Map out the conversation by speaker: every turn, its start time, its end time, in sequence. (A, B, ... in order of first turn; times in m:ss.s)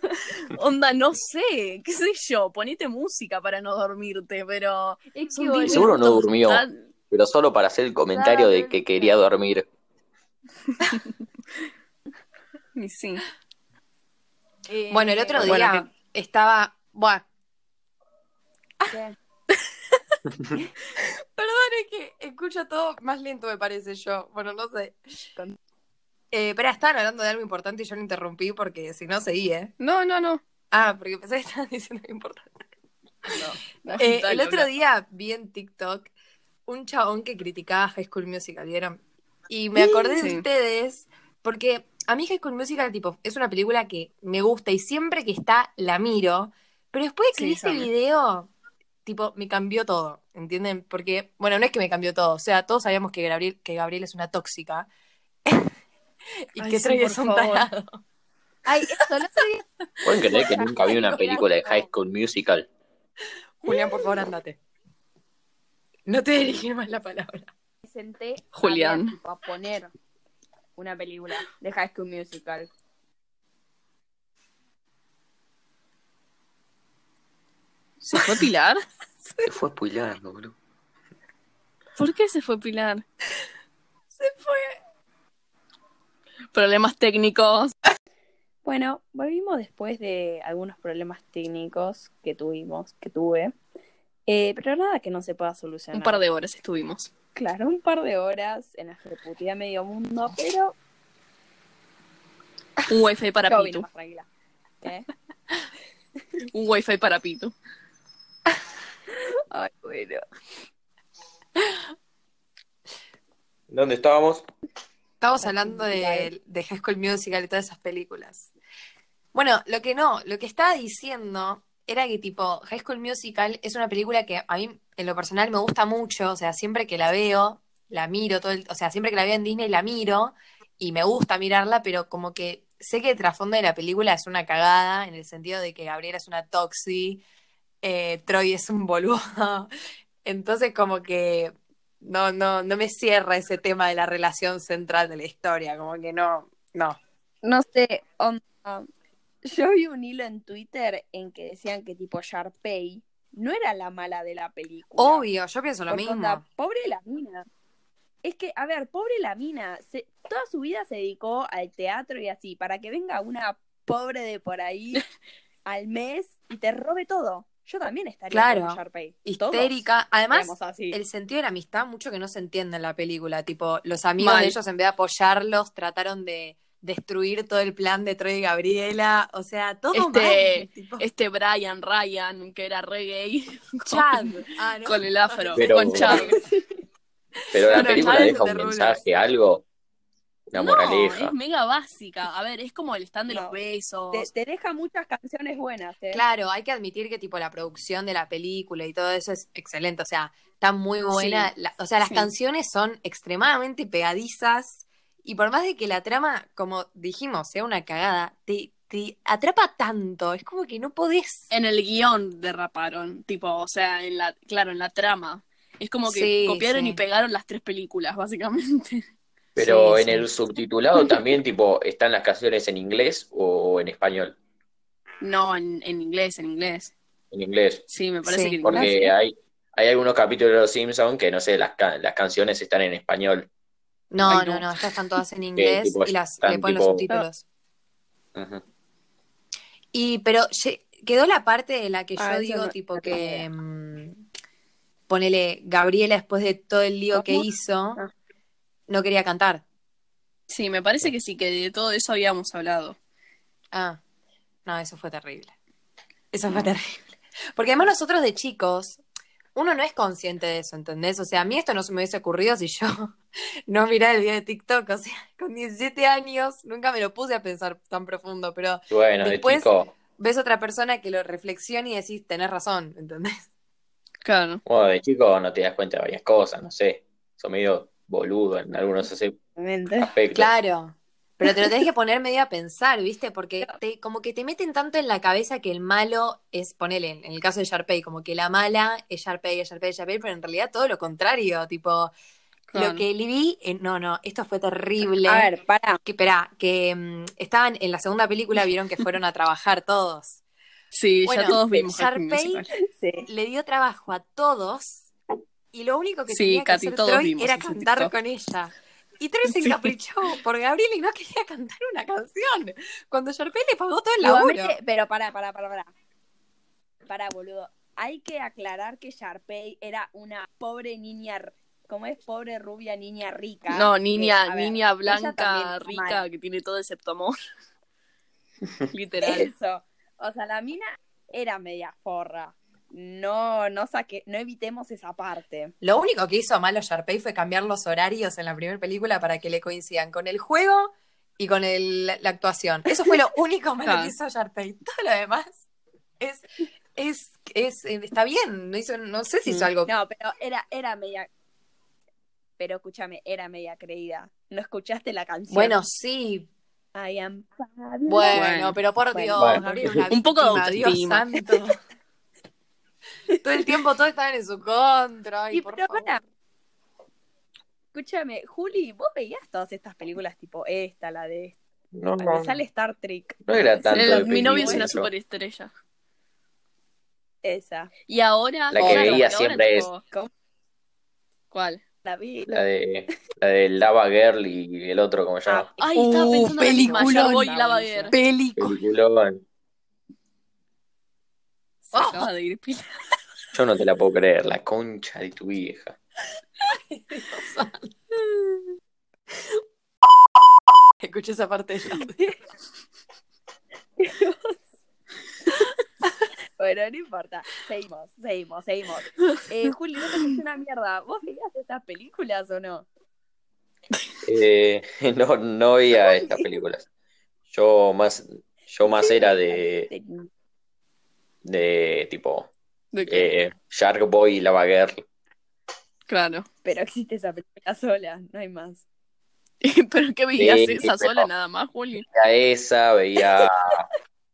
0:00.4-0:06.8 A
0:05.1-0:06.0 B
0:05.7-0:09.7 C
0:08.1-0:09.2 B
0:12.8-0:13.2 A
0:14.7-0:15.6 B
0:14.9-0:17.2 D
0:15.4-0:15.9 A
0:18.9-0:19.2 B
0:21.4-0:25.0 D
0:26.3-0:29.7 D
0:29.8-0:30.4 A
0:30.7-0:32.6 D
0:33.3-0:34.7 A
0:34.0-0:36.1 D
0:36.7-0:48.5 D
0:40.2-0:40.4 A
0:47.4-0:47.9 A
0:49.0-0:54.9 D
0:55.5-0:55.8 D
0:56.5-0:58.0 D
0:56.6-0:57.7 A
0:58.6-1:01.9 B
1:00.0-1:02.7 C
1:03.6-1:04.6 D
1:06.1-1:07.5 D
1:07.8-1:09.9 B
1:08.5-1:09.2 A
1:10.8-1:12.7 B
1:18.0-1:18.8 A
1:19.5-1:20.6 C
1:22.0-1:23.0 A
1:24.2-1:24.8 D
1:26.5-1:27.8 A
1:28.6-1:33.5 B
1:34.3-1:36.2 B
1:35.9-1:37.1 A
1:37.4-1:40.8 B
1:42.9-1:43.8 A
1:43.5-1:44.3 B
1:44.8-1:45.1 B
1:46.5-1:47.5 A
1:49.5-1:50.2 B
1:53.7-1:54.4 C
1:55.2-1:58.5 D
1:55.4-1:56.3 B
1:59.3-2:17.2 D
2:17.8-2:19.7 D
2:20.2-2:27.0 D
2:27.4-2:28.9 B
2:29.4-2:35.3 B
2:35.0-2:36.4 D
2:35.9-2:37.5 B
2:38.2-2:45.1 B
2:45.7-2:49.8 B
2:48.3-3:01.1 D
2:50.3-2:51.0 B
2:54.2-2:54.6 A
2:59.9-3:04.3 A
3:03.8-3:06.3 D
3:04.8-3:06.4 A
3:05.6-3:06.2 C
3:06.2-3:06.6 B
3:07.5-3:09.6 C
3:07.6-3:09.0 D
3:07.7-3:08.4 A
3:10.5-3:11.4 C
3:10.6-3:14.3 A
3:13.3-3:13.6 B
3:14.1-3:16.2 B
3:16.1-3:31.5 D
3:22.0-3:22.3 A
3:31.5-3:39.1 A
3:36.0-3:37.0 D
3:39.6-3:44.4 C
3:39.6-3:40.3 D
3:45.2-3:46.9 A
3:47.3-3:47.8 C
3:47.9-3:49.1 A
3:48.2-3:48.9 D
3:48.6-3:53.5 C
3:54.1-3:57.4 D
3:54.2-3:54.7 A
3:55.6-3:57.0 C
3:58.4-3:58.6 C
3:59.9-4:04.2 D
4:02.2-4:03.5 B
4:05.1-4:08.0 D
4:07.1-4:07.4 B
4:08.9-4:09.6 D
4:10.5-4:13.0 A
4:13.7-4:14.0 D
4:14.7-4:15.5 D
4:16.3-4:19.0 D
4:19.6-4:23.2 D
4:23.7-4:33.5 D
4:28.9-4:29.9 C
4:34.2-4:34.6 A
4:34.7-4:39.4 C
4:39.6-4:40.1 B
4:40.0-4:40.5 C
4:40.3-4:52.1 D
4:52.7-4:53.0 A
4:52.8-4:55.5 D
4:55.2-4:56.0 B
4:56.1-5:00.4 D
5:00.9-5:02.7 A
5:01.2-5:02.7 D
5:02.9-5:03.3 B
5:03.3-5:05.1 D
5:05.7-5:14.8 D
5:06.3-5:08.1 A
5:09.5-5:09.9 A
5:14.2-5:15.9 B
5:17.1-5:26.2 B
5:23.7-5:27.4 A
5:28.9-5:29.5 A
5:29.2-5:35.7 B
5:35.8-5:45.6 D
5:43.8-5:44.2 A
5:46.2-5:46.4 D
5:47.0-5:49.9 D
5:49.9-5:51.3 B
5:52.6-5:55.8 B
5:55.5-5:56.5 D
5:56.9-5:58.4 B
5:58.1-6:01.8 D
5:58.3-5:58.8 A
5:59.1-6:00.0 B
5:59.4-6:00.0 C
6:00.1-6:01.2 A
6:03.4-6:06.2 D
6:05.5-6:06.2 B
6:07.9-6:11.6 B
6:11.9-6:12.6 C
6:12.2-6:14.9 B
6:13.5-6:15.1 C
6:13.9-6:15.7 A
6:17.4-6:17.9 B
6:18.1-6:20.0 A
6:18.7-6:19.9 C
6:18.8-6:19.2 D
6:18.8-6:19.3 B
6:20.0-6:20.3 B
6:21.5-6:21.8 A
6:22.0-6:22.6 B
6:22.5-6:25.7 C
6:25.5-6:28.2 B
6:25.8-6:28.2 A
6:26.0-6:27.4 D
6:28.1-6:28.8 D
6:28.6-6:29.4 C
6:31.9-6:32.9 A
6:31.9-6:32.2 D
6:33.5-6:36.0 C
6:36.9-6:37.9 D
6:41.0-6:42.4 D
6:44.0-6:44.6 B
6:46.6-6:52.9 B
6:54.2-6:56.9 C
6:56.0-6:56.5 B
6:57.5-6:59.9 C
6:58.8-7:00.3 B
7:01.4-7:02.5 C
7:02.9-7:03.3 A
7:03.1-7:05.0 C
7:06.1-7:06.5 A
7:06.6-7:08.8 B
7:09.6-7:12.1 A
7:10.4-7:11.3 C
7:12.1-7:13.8 C